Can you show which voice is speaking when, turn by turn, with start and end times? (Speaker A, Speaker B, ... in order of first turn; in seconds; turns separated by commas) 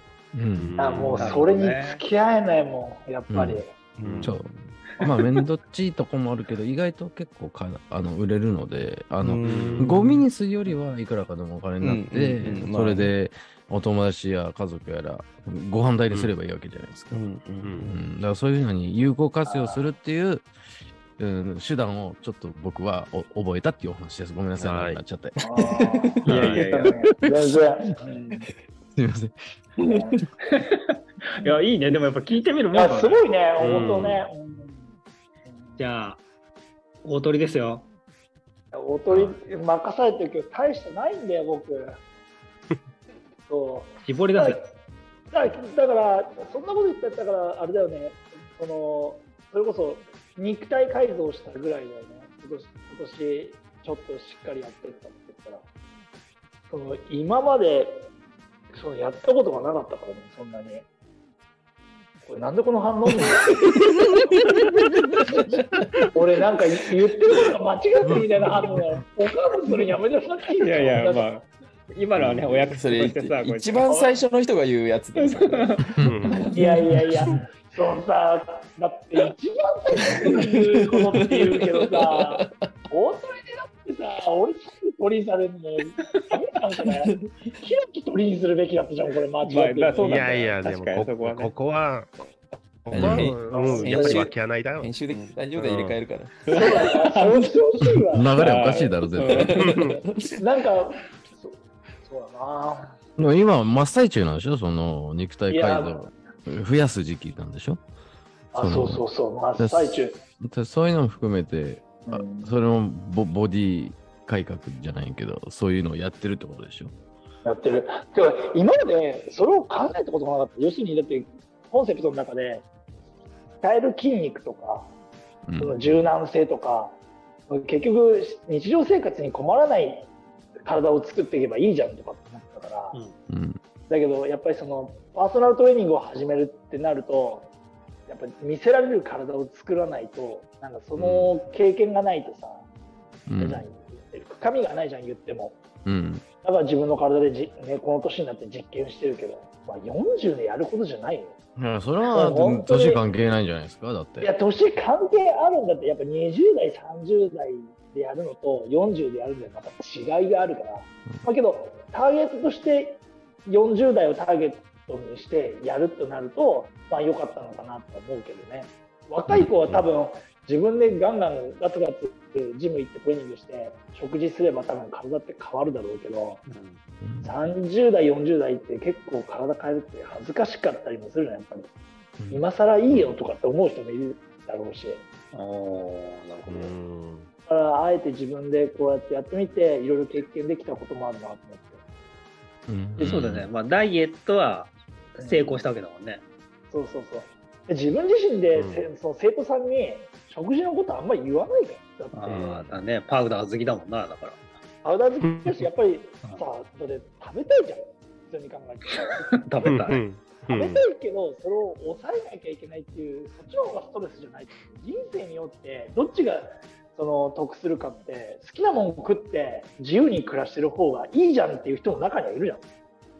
Speaker A: 0.3-1.1, Speaker B: 0.6-1.4, Speaker C: 0.8-3.7, Speaker D: 1.1-2.0, Speaker A: 3.3-3.6, Speaker E: 4.0-4.8, Speaker B: 4.0-4.3, Speaker A: 4.2-4.5, Speaker A: 5.0-17.2, Speaker E: 9.2-10.7, Speaker B: 9.4-9.9, Speaker E: 11.8-13.1, Speaker E: 17.1-18.0, Speaker B: 17.6-17.9, Speaker A: 17.8-20.5, Speaker C: 19.4-19.9, Speaker A: 21.2-29.3, Speaker B: 24.6-25.0, Speaker C: 25.4-28.4, Speaker D: 26.3-26.9, Speaker B: 26.3-26.7, Speaker C: 29.8-30.2, Speaker D: 31.4-34.1, Speaker C: 32.7-35.8, Speaker B: 33.6-34.3, Speaker D: 35.8-36.2, Speaker D: 37.0-37.9, Speaker C: 38.7-42.0, Speaker A: 39.1-39.3, Speaker C: 43.5-44.6, Speaker D: 44.0-44.6, Speaker C: 45.3-55.6, Speaker C: 56.7-58.1, Speaker C: 58.7-60.9, Speaker C: 62.2-63.9, Speaker C: 66.1-71.3, Speaker A: 68.1-69.0, Speaker D: 70.6-73.9, Speaker B: 72.2-72.5, Speaker E: 72.5-75.8, Speaker C: 73.8-74.2, Speaker D: 75.2-75.9, Speaker B: 76.0-76.5, Speaker C: 76.3-90.5, Speaker E: 81.2-82.5, Speaker E: 87.2-87.5, Speaker D: 89.4-91.5, Speaker B: 90.0-92.2, Speaker B: 92.8-96.0, Speaker E: 92.9-97.2, Speaker A: 92.9-93.3, Speaker C: 93.2-94.3, Speaker D: 96.5-97.1, Speaker C: 96.5-98.9, Speaker A: 97.9-99.7, Speaker D: 98.4-99.5, Speaker E: 99.3-100.3, Speaker B: 99.6-99.9, Speaker C: 100.4-103.0, Speaker A: 103.2-107.8, Speaker C: 105.5-106.0, Speaker A: 108.5-116.9, Speaker C: 108.5-110.2, Speaker C: 112.0-112.5, Speaker C: 117.4-122.7, Speaker C: 123.6-124.9, Speaker A: 125.5-126.1, Speaker C: 125.6-127.0, Speaker C: 127.5-130.1, Speaker C: 130.6-133.0, Speaker A: 133.3-133.6, Speaker C: 133.9-137.5, Speaker C: 138.1-142.7, Speaker B: 141.0-141.3, Speaker A: 143.3-143.7, Speaker C: 143.4-145.6, Speaker A: 145.8-146.2, Speaker C: 146.4-151.3, Speaker A: 151.6-154.3, Speaker C: 152.0-153.0, Speaker C: 154.2-176.4, Speaker D: 176.5-176.8, Speaker A: 177.0-177.5, Speaker C: 177.2-181.7, Speaker A: 182.2-182.4, Speaker C: 182.3-185.0, Speaker D: 185.3-186.7, Speaker B: 186.5-187.3, Speaker C: 187.4-191.8, Speaker A: 192.7-193.5, Speaker D: 193.0-196.2, Speaker C: 195.2-195.7, Speaker C: 196.7-202.7, Speaker B: 198.5-198.8, Speaker D: 202.1-204.4, Speaker B: 202.3-202.6, Speaker C: 204.8-222.7, Speaker B: 205.2-205.6, Speaker D: 209.4-210.0, Speaker B: 209.7-210.8